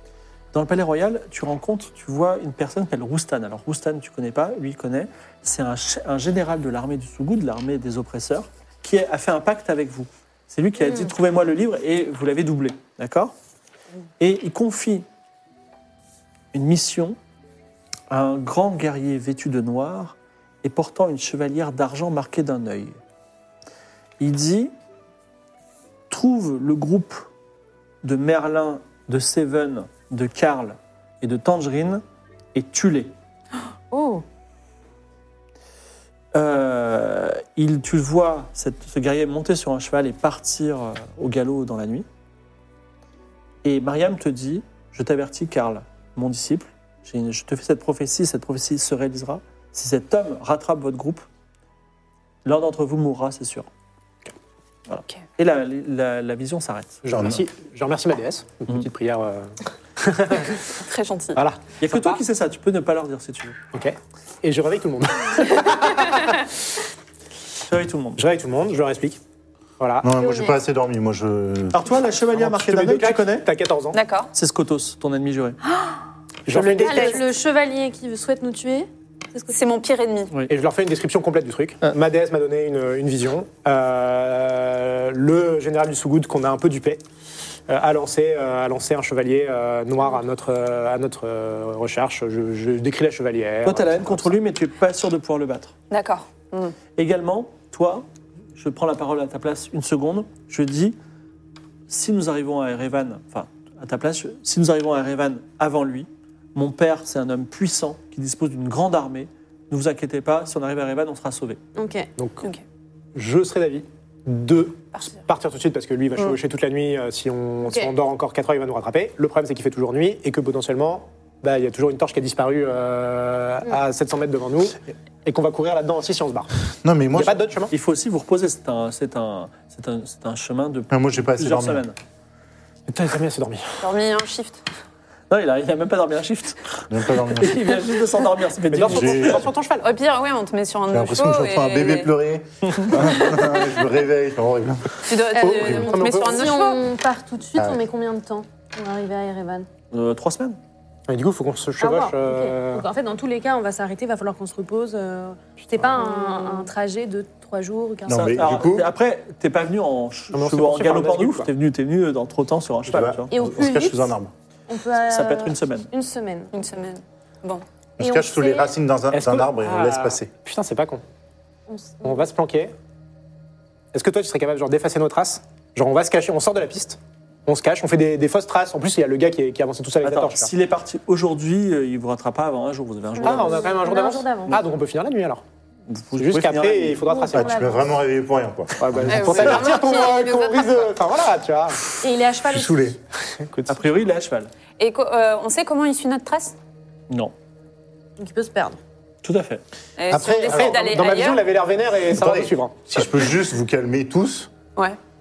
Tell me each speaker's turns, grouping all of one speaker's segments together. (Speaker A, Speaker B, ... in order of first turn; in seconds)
Speaker A: 0.5-13.3, 14.2-15.1, 16.5-17.2, 18.1-23.0, 24.2-24.7, 26.1-27.2, 28.0-32.0, 32.5-33.1, 36.3-42.0, 43.6-51.2, 52.4-53.7, 54.9-57.4, 61.8-63.6, 67.6-68.2, 71.7-73.5, 74.3-75.6, 93.6-95.7, 97.0-101.0, 101.9-111.6, 127.7-132.0, 135.3-139.5, 142.6-143.0, 149.9-150.6, 158.1-163.3, 165.1-165.9, 180.0-183.7, 185.9-187.0, 193.7-194.5, 199.2-199.6
Speaker B: 10.8-11.1, 33.9-34.2, 70.1-70.6, 76.8-79.6, 111.8-112.1, 117.6-117.9, 145.3-149.7, 151.8-158.6, 163.3-164.1, 164.7-166.5, 168.0-168.7, 171.7-172.2, 183.2-184.6, 187.0-187.8, 192.0-192.8, 198.2-198.8
Speaker C: 57.0-60.8, 61.3-62.2, 63.7-66.5, 68.2-69.2, 69.8-70.1, 72.3-74.0, 76.5-77.2, 80.5-87.0, 87.7-94.3, 112.2-112.4, 113.1-126.5, 127.1-127.7, 132.9-133.9, 138.7-139.9, 145.4-146.5, 151.1-152.8, 160.3-161.5, 169.1-171.0, 172.0-172.7, 173.9-180.5, 183.2-185.4, 186.2-187.8, 188.8-191.8, 193.3-193.9, 200.4-203.2
Speaker D: 60.7-61.4, 73.9-74.3, 76.5-77.2, 79.5-80.4, 95.9-96.8, 133.8-134.6, 139.8-142.1, 145.1-146.8, 156.2-156.6, 166.5-167.6, 189.1-190.9, 194.8-196.6, 200.0-201.5
Speaker E: 70.0-71.9, 126.8-127.5, 130.9-131.8, 136.9-137.7, 138.8-139.4, 140.9-145.0, 158.1-158.9, 162.9-164.3, 168.0-170.3, 187.3-189.8, 192.4-193.0, 200.1-200.8, 202.1-204.5